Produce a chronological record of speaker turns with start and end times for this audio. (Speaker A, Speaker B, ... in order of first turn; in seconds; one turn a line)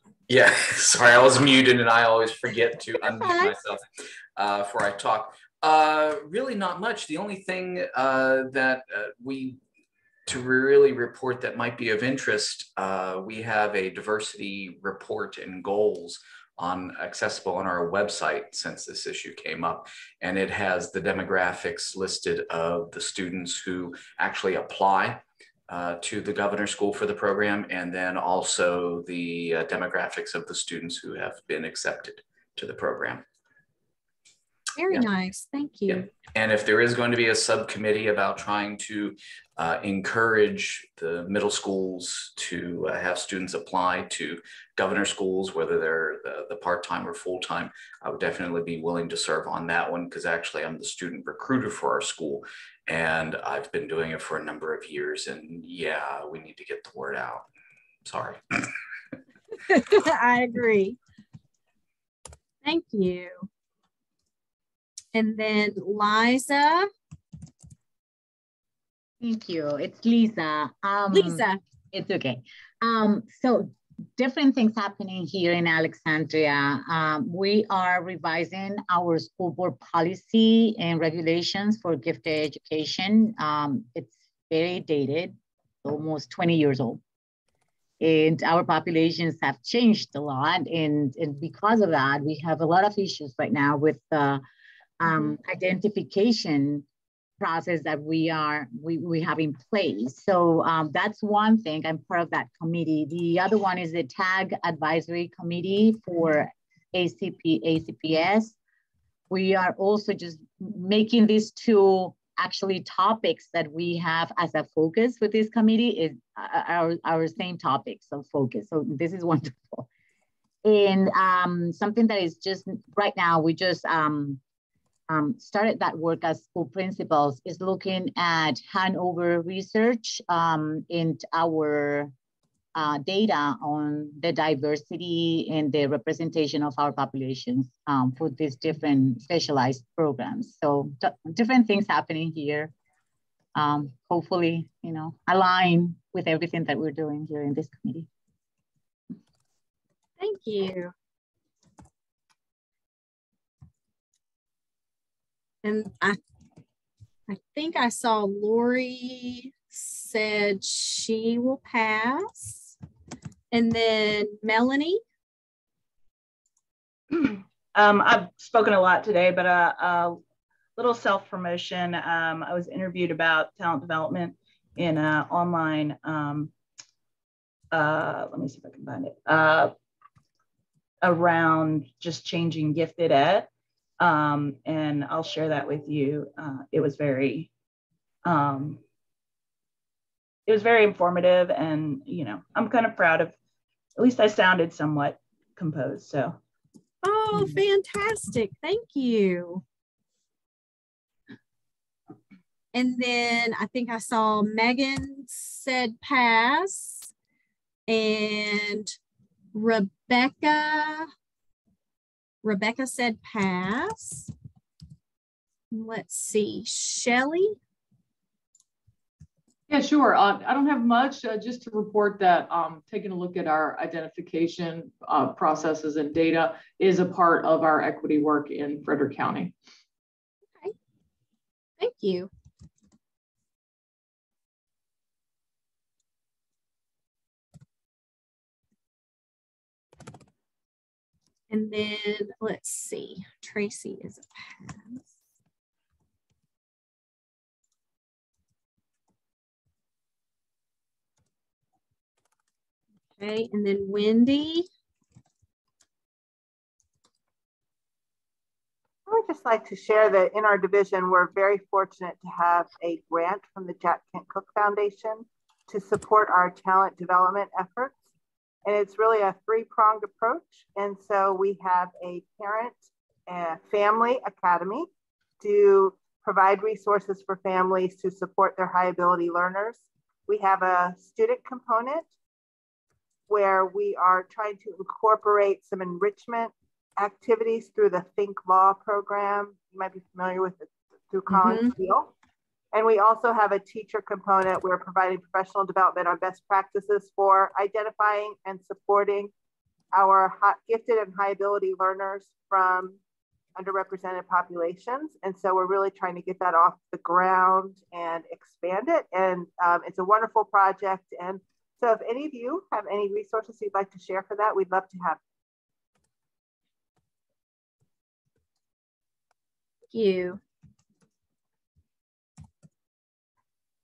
Speaker A: 0.3-3.9
Speaker B: 3.1-3.5
Speaker A: 4.4-9.6
Speaker A: 10.3-33.2
Speaker B: 34.8-36.1
Speaker A: 35.9-57.5
Speaker A: 58.0-58.7
Speaker B: 59.7-61.0
Speaker B: 62.6-63.5
Speaker B: 65.1-66.9
Speaker C: 69.2-87.0
Speaker B: 71.1-71.6
Speaker C: 88.0-94.4
Speaker C: 95.0-96.8
Speaker C: 97.4-108.5
Speaker C: 109.3-119.9
Speaker C: 120.7-124.4
Speaker C: 125.1-132.1
Speaker C: 132.8-142.7
Speaker C: 143.6-148.1
Speaker B: 150.2-150.9
Speaker B: 155.6-156.2
Speaker B: 157.3-162.7
Speaker B: 163.5-165.0
Speaker D: 167.1-170.2
Speaker D: 170.8-176.5
Speaker D: 177.7-179.7
Speaker D: 181.0-187.5
Speaker D: 188.2-188.8
Speaker D: 190.5-193.3
Speaker D: 194.0-196.4
Speaker B: 197.0-199.6
Speaker B: 202.7-207.0
Speaker B: 207.9-208.9
Speaker B: 209.5-211.1
Speaker B: 212.4-214.3
Speaker B: 215.7-217.6
Speaker E: 219.7-229.6
Speaker B: 231.8-232.3
Speaker B: 241.5-245.0
Speaker B: 253.2-254.7
Speaker F: 259.1-267.9
Speaker F: 268.7-274.9
Speaker F: 275.4-282.1
Speaker F: 283.3-292.1
Speaker B: 291.3-291.7
Speaker F: 292.7-299.3
Speaker F: 299.9-303.0
Speaker F: 303.6-315.2
Speaker B: 319.9-320.4